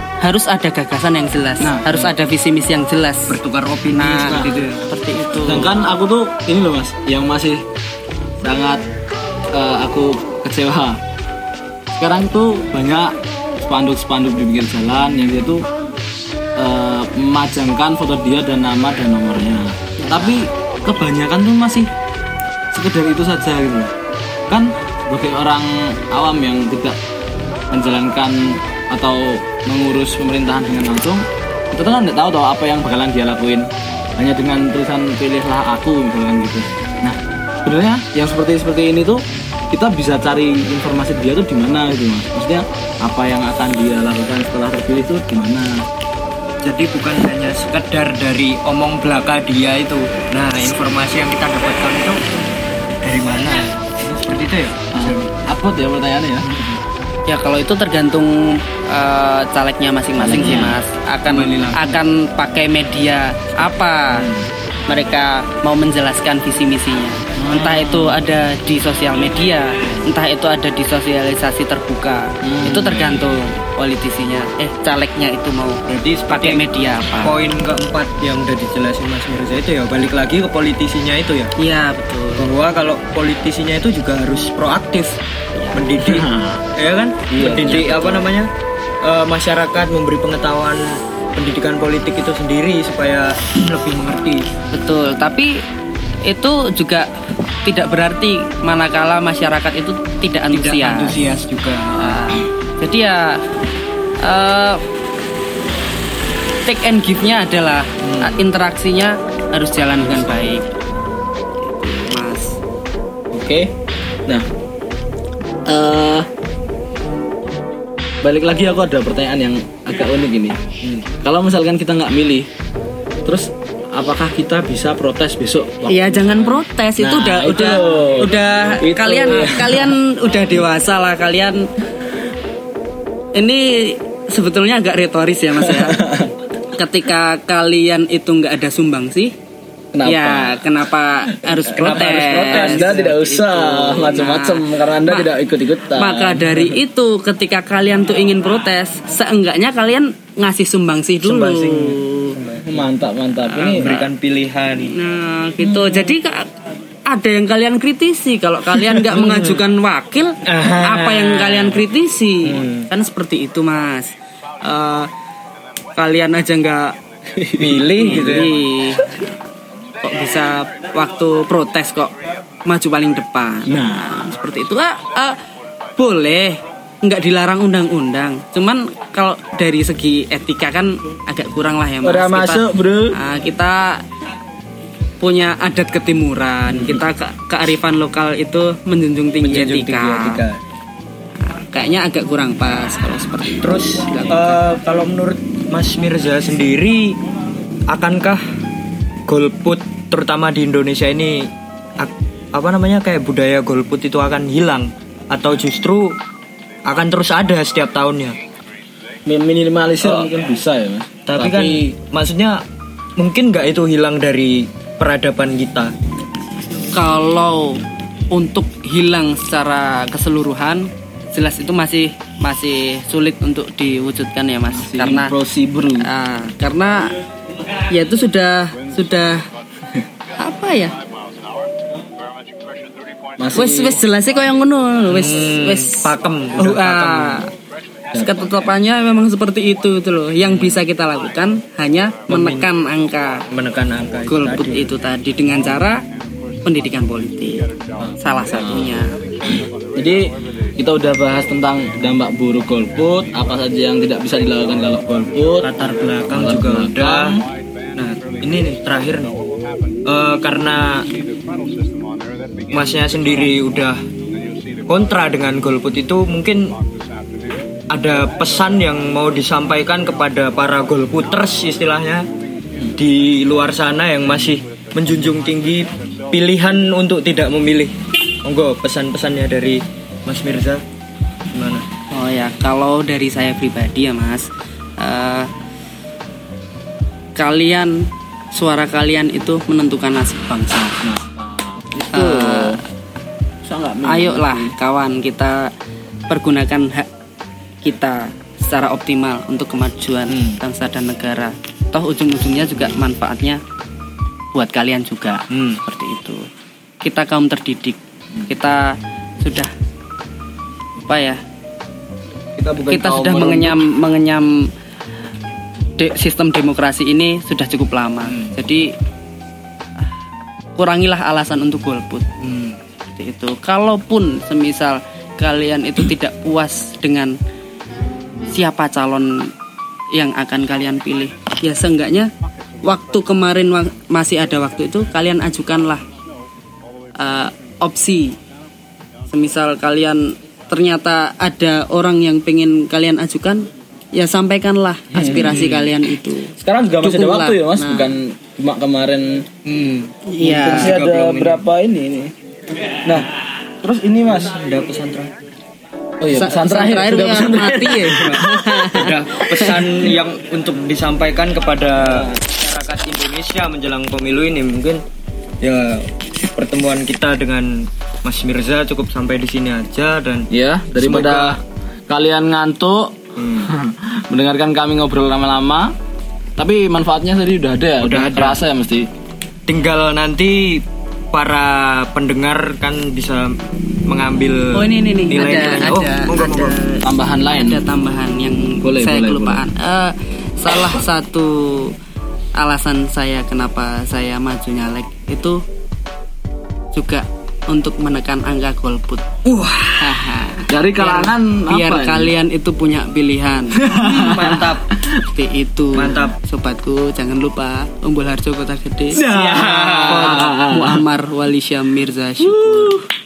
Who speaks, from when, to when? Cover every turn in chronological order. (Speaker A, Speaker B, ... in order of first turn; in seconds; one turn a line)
Speaker A: 0.2-3.4
Speaker B: 1.6-2.1
Speaker C: 3.3-4.9
Speaker A: 3.9-5.8
Speaker B: 5.5-7.7
Speaker B: 8.4-8.8
Speaker B: 9.5-11.0
Speaker B: 12.0-15.7
Speaker B: 16.6-21.9
Speaker A: 20.0-20.3
Speaker B: 22.7-23.9
Speaker B: 24.5-27.0
Speaker B: 27.7-45.9
Speaker C: 46.6-52.2
Speaker C: 53.0-55.4
Speaker B: 54.9-56.5
Speaker C: 56.5-56.8
Speaker A: 57.3-64.3
Speaker B: 60.1-60.8
Speaker C: 61.3-62.0
Speaker B: 64.1-64.5
Speaker A: 64.9-75.8
Speaker B: 67.4-68.2
Speaker B: 72.4-73.2
Speaker C: 75.9-76.6
Speaker A: 76.3-77.4
Speaker C: 77.2-81.5
Speaker A: 81.6-82.5
Speaker C: 82.4-85.2
Speaker C: 85.7-88.5
Speaker B: 86.0-86.6
Speaker B: 87.3-88.2
Speaker C: 89.0-94.5
Speaker A: 94.7-95.6
Speaker A: 96.3-97.1
Speaker A: 97.7-101.2
Speaker C: 100.5-102.3
Speaker A: 102.0-103.4
Speaker A: 104.2-104.8
Speaker A: 106.7-110.7
Speaker C: 110.0-110.5
Speaker A: 111.6-112.6
Speaker B: 113.3-113.7
Speaker B: 115.7-116.3
Speaker B: 118.2-120.6
Speaker B: 121.1-122.5
Speaker B: 123.2-129.9
Speaker A: 125.9-131.7
Speaker A: 133.3-136.0
Speaker B: 135.6-136.3
Speaker A: 136.7-139.3
Speaker B: 139.9-140.6
Speaker A: 140.1-145.3
Speaker B: 141.6-146.8
Speaker C: 141.6-143.0
Speaker A: 145.9-152.4
Speaker C: 151.2-152.8
Speaker B: 152.6-154.1
Speaker C: 153.5-154.9
Speaker A: 154.9-156.5
Speaker B: 155.6-156.2
Speaker A: 157.1-165.1
Speaker C: 159.1-159.5
Speaker C: 160.4-161.8
Speaker C: 162.5-162.9
Speaker A: 165.9-167.0
Speaker B: 167.3-168.5
Speaker C: 167.6-168.6
Speaker A: 168.0-169.2
Speaker A: 170.0-175.4
Speaker B: 173.7-174.2
Speaker A: 176.0-184.0
Speaker B: 182.0-183.2
Speaker A: 185.2-190.4
Speaker C: 186.8-187.0
Speaker C: 189.4-190.6
Speaker A: 191.4-194.6
Speaker C: 193.6-197.2
Speaker C: 197.9-198.4
Speaker C: 199.3-206.2
Speaker C: 206.9-208.4
Speaker B: 209.3-211.9
Speaker C: 210.0-210.3
Speaker C: 211.3-212.6
Speaker C: 213.2-215.9
Speaker A: 216.9-217.8
Speaker A: 218.3-225.3
Speaker B: 224.7-226.1
Speaker A: 226.0-227.1
Speaker A: 227.9-229.5
Speaker A: 230.4-230.9
Speaker B: 233.4-234.0
Speaker A: 233.5-237.5
Speaker C: 235.1-237.5
Speaker B: 238.1-238.5
Speaker A: 238.2-243.4
Speaker C: 240.5-240.8
Speaker C: 242.3-242.7
Speaker C: 243.5-244.9
Speaker A: 244.3-246.0
Speaker A: 246.6-249.2
Speaker B: 248.1-255.7
Speaker C: 255.6-257.4
Speaker B: 256.3-257.4
Speaker C: 258.0-259.3
Speaker C: 260.1-261.1
Speaker C: 262.7-264.0
Speaker C: 264.9-266.8
Speaker C: 267.9-272.3
Speaker C: 272.9-280.8
Speaker C: 281.5-281.9
Speaker A: 282.1-284.5
Speaker A: 285.0-285.5
Speaker A: 287.4-291.0
Speaker B: 291.0-292.8
Speaker A: 292.1-292.8
Speaker B: 293.6-294.8
Speaker A: 294.0-295.7
Speaker A: 296.3-297.1
Speaker A: 297.8-303.6
Speaker A: 304.5-306.5
Speaker C: 305.5-305.8
Speaker A: 307.0-309.7
Speaker A: 311.1-311.4
Speaker B: 312.6-313.8
Speaker A: 312.9-314.7
Speaker A: 316.0-318.9
Speaker A: 320.8-322.3
Speaker C: 322.4-322.8
Speaker A: 323.2-327.4
Speaker A: 328.5-329.5
Speaker A: 330.1-332.3
Speaker A: 332.8-336.0
Speaker A: 337.2-338.4
Speaker A: 339.3-348.1
Speaker B: 345.1-345.8
Speaker C: 345.5-345.8
Speaker B: 346.6-349.7
Speaker C: 349.7-350.1
Speaker A: 350.3-350.9
Speaker B: 350.4-352.3
Speaker C: 350.7-351.6
Speaker B: 353.0-353.3
Speaker B: 353.8-354.6
Speaker C: 354.3-355.3
Speaker B: 356.2-358.6
Speaker A: 356.3-359.8
Speaker C: 358.1-365.0
Speaker B: 362.0-362.4
Speaker C: 365.6-371.6
Speaker B: 370.5-375.9
Speaker C: 373.4-373.7
Speaker B: 376.6-379.1
Speaker C: 378.0-378.6
Speaker C: 379.7-383.6
Speaker C: 384.1-386.8
Speaker A: 384.7-391.9
Speaker B: 387.0-387.8
Speaker B: 388.8-389.6
Speaker A: 392.6-395.6
Speaker A: 396.9-399.3
Speaker C: 399.4-400.4
Speaker A: 400.0-403.9
Speaker B: 400.7-402.3
Speaker B: 403.8-405.2
Speaker C: 403.9-404.9
Speaker A: 405.2-413.0
Speaker C: 405.9-406.4
Speaker B: 409.1-411.0
Speaker C: 409.2-410.5
Speaker B: 412.4-413.1